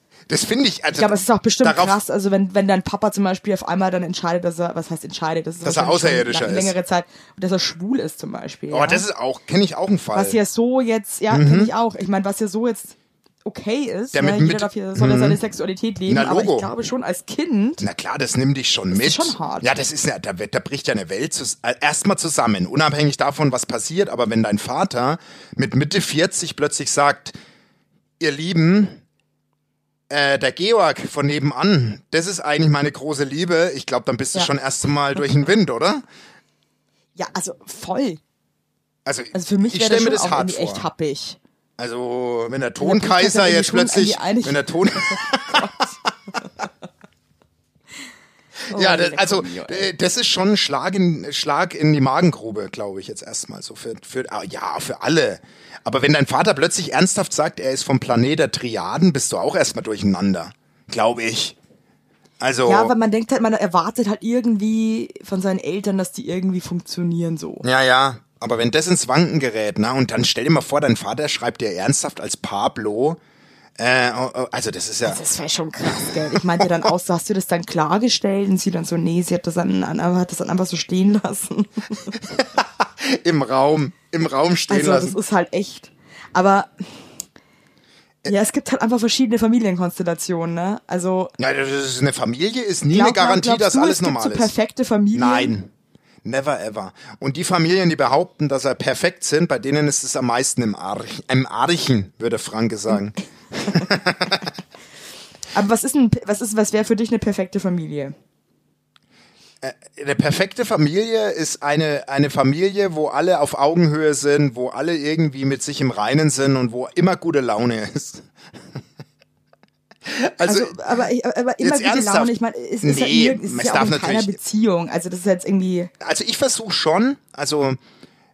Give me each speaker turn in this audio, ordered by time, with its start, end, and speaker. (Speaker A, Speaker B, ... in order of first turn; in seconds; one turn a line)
Speaker A: 0.3-2.0
Speaker B: 1.0-9.1
Speaker A: 5.6-6.8
Speaker A: 8.7-10.4
Speaker B: 10.1-17.8
Speaker A: 11.3-11.7
Speaker A: 14.1-15.4
Speaker A: 16.1-16.7
Speaker A: 17.8-27.3
Speaker B: 18.9-19.7
Speaker A: 28.2-29.0
Speaker A: 30.1-36.0
Speaker B: 37.2-38.2
Speaker A: 39.1-40.9
Speaker B: 39.3-41.4
Speaker A: 41.8-45.9
Speaker B: 42.8-45.9
Speaker A: 48.7-61.6
Speaker B: 48.7-49.9
Speaker A: 62.4-62.9
Speaker B: 62.6-67.6
Speaker A: 67.6-73.2
Speaker A: 73.8-75.2
Speaker B: 75.0-82.1
Speaker A: 76.0-76.7
Speaker A: 82.2-85.2
Speaker B: 84.7-86.9
Speaker B: 88.3-91.3
Speaker A: 91.4-94.5
Speaker B: 92.9-95.5
Speaker A: 95.1-95.7
Speaker A: 96.2-104.5
Speaker B: 105.5-108.1
Speaker A: 109.6-118.3
Speaker A: 120.1-120.8
Speaker B: 120.4-125.9
Speaker A: 121.6-124.4
Speaker A: 126.0-127.8